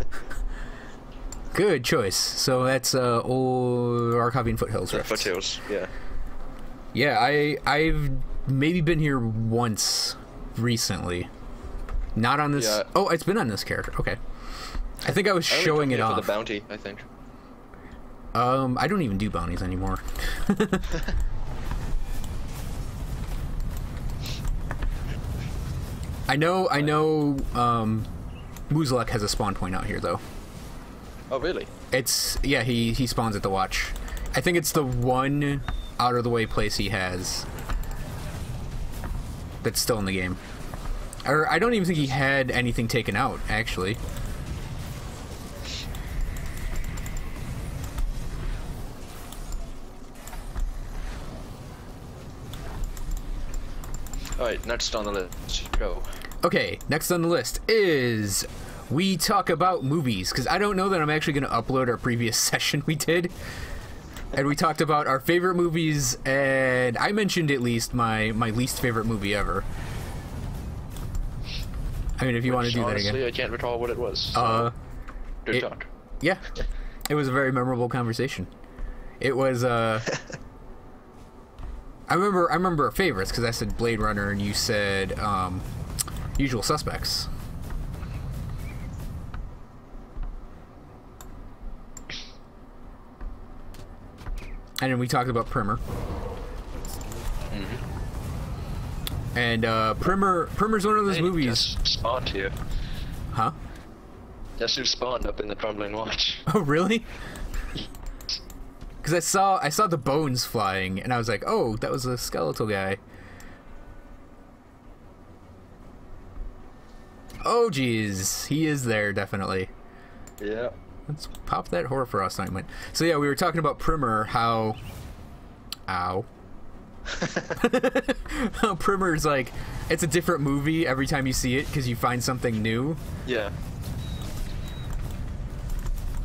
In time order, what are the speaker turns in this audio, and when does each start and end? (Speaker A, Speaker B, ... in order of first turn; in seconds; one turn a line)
Speaker A: 1.5-5.3
Speaker B: 4.9-5.9
Speaker A: 6.9-11.3
Speaker A: 12.2-14.2
Speaker B: 12.6-12.9
Speaker A: 15.0-16.3
Speaker B: 15.5-17.1
Speaker A: 18.3-21.0
Speaker A: 26.3-28.1
Speaker A: 28.7-30.2
Speaker B: 31.3-31.7
Speaker A: 31.9-37.5
Speaker A: 39.6-40.4
Speaker A: 41.3-44.0
Speaker B: 54.4-56.1
Speaker A: 56.4-63.3
Speaker A: 64.3-69.7
Speaker A: 72.2-73.2
Speaker B: 72.5-74.7
Speaker A: 74.3-74.8
Speaker B: 75.5-75.9
Speaker A: 76.2-76.5
Speaker A: 77.1-78.5
Speaker A: 79.2-80.1
Speaker A: 82.1-85.7
Speaker A: 86.4-87.3
Speaker A: 94.8-95.8
Speaker B: 97.5-97.8
Speaker A: 99.3-101.7
Speaker B: 101.1-102.5
Speaker B: 104.6-106.5
Speaker A: 106.5-107.1
Speaker A: 109.0-113.0
Speaker A: 117.4-119.7
Speaker B: 120.4-120.7
Speaker A: 121.1-124.8
Speaker A: 125.9-126.3
Speaker B: 127.1-127.6
Speaker A: 127.6-133.0
Speaker B: 133.3-133.5